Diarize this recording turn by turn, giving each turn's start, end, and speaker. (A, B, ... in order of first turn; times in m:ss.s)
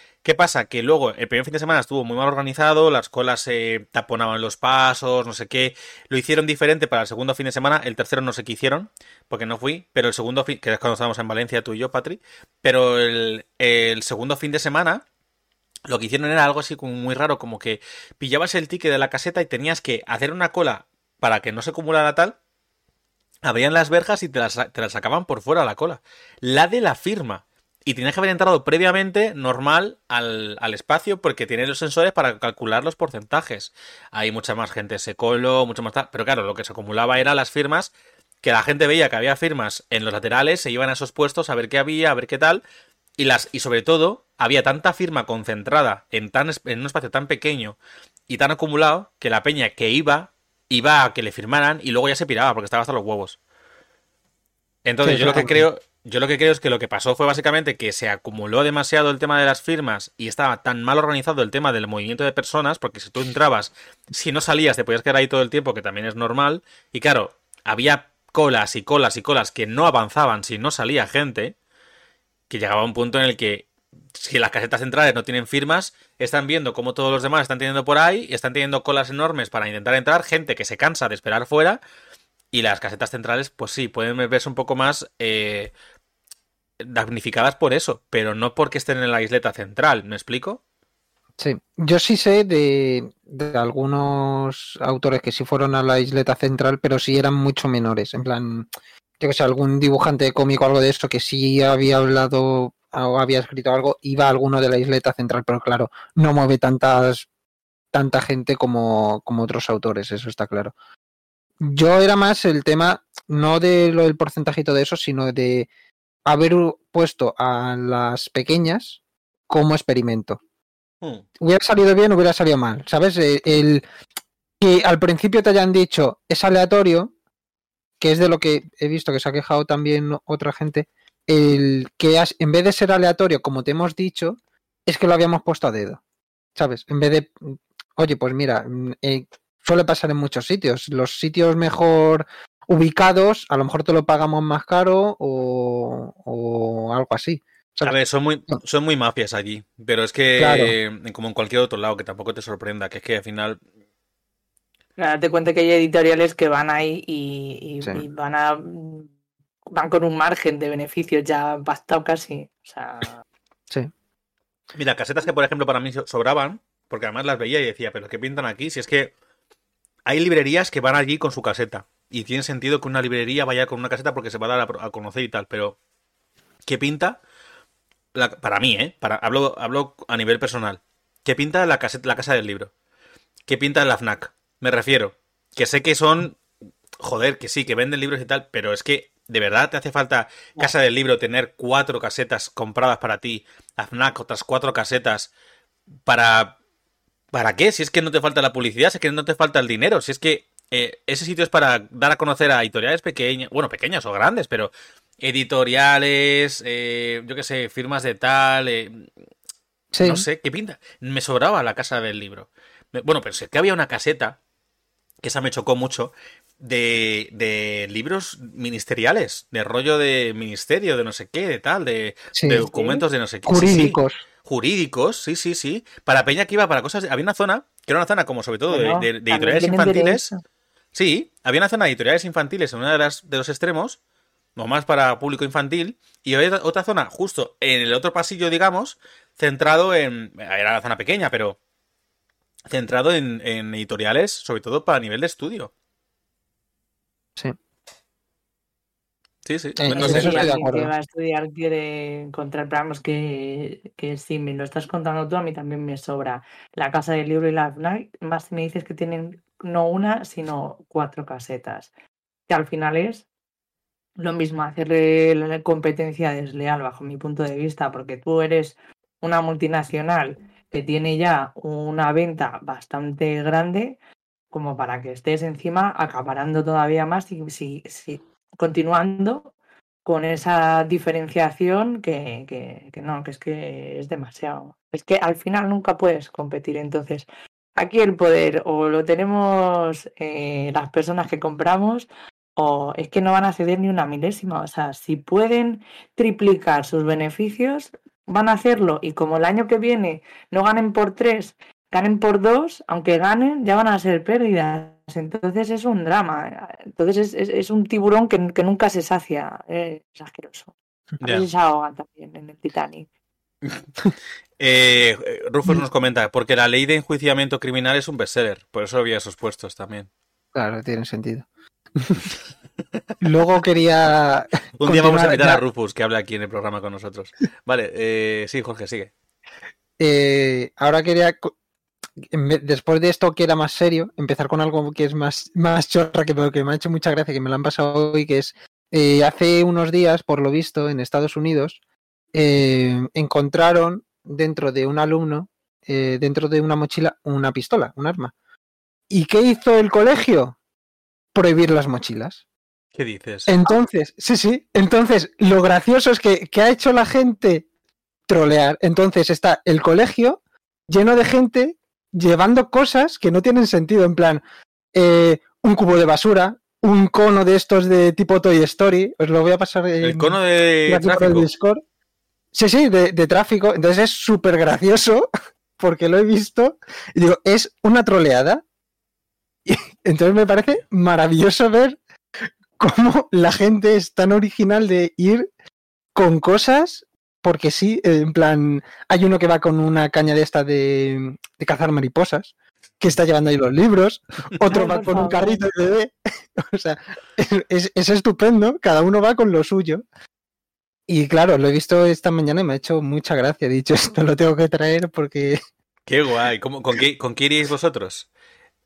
0:00.2-0:15.0 A
0:15.9-0:22.4 A
0:23.4-0:37.9 A
0:38.4-0:42.6 A
0:43.2-0:47.8 A
0:48.3-0:53.4 A
0:54.8-1:11.5 A
0:55.0-0:55.6 B
1:12.5-1:21.8 A
1:22.5-1:25.7 A
1:26.8-1:30.6 A
1:31.4-1:38.7 B
1:39.2-1:47.3 B
1:47.9-1:50.7 B
1:51.6-1:55.7 B
1:56.3-2:00.4 B
2:01.4-2:03.8 B
2:04.6-2:07.1 B
2:08.0-2:16.0 B
2:16.6-2:27.9 B
2:27.8-2:33.6 A
2:30.4-2:30.7 B
2:35.0-2:39.1 C
2:39.7-2:43.2 C
2:44.7-2:49.1 A
2:50.0-2:55.8 A
2:56.6-2:57.2 A
2:58.1-3:02.7 A
3:03.5-3:06.4 A
3:07.0-3:15.3 A
3:16.0-3:16.6 A
3:17.3-3:29.1 A
3:29.9-3:30.2 B
3:30.0-3:34.4 A
3:35.2-3:50.3 A
3:42.3-3:42.6 B
3:42.7-3:43.0 C
3:43.4-3:44.2 B
3:48.7-3:50.4 C
3:50.9-3:54.0 A
3:54.6-4:01.6 A
4:02.7-4:05.7 A
4:09.4-4:10.5 A
4:09.8-4:10.9 B
4:09.9-4:21.9 C
4:22.5-4:23.2 C
4:24.2-4:34.0 C
4:34.5-4:39.5 C
4:40.0-5:13.1 C
5:11.2-5:11.4 A
5:14.6-5:20.1 A
5:20.5-5:22.3 B
5:23.2-5:25.6 B
5:24.8-5:29.1 A
5:30.0-5:31.5 B
5:32.3-5:41.8 B
5:42.3-5:48.3 B
5:49.1-5:50.6 B
5:51.3-5:52.4 B
5:52.9-5:53.5 A
5:53.5-5:57.6 B
5:58.3-6:04.4 B
6:04.9-6:10.4 B
6:10.0-6:11.5 A
6:10.9-6:11.8 B
6:12.5-6:15.3 B
6:15.8-6:18.6 B
6:19.6-6:22.0 B
6:22.8-6:25.5 B
6:26.1-6:40.0 B
6:34.7-6:35.6 C
6:41.1-6:45.6 B
6:46.1-6:48.3 A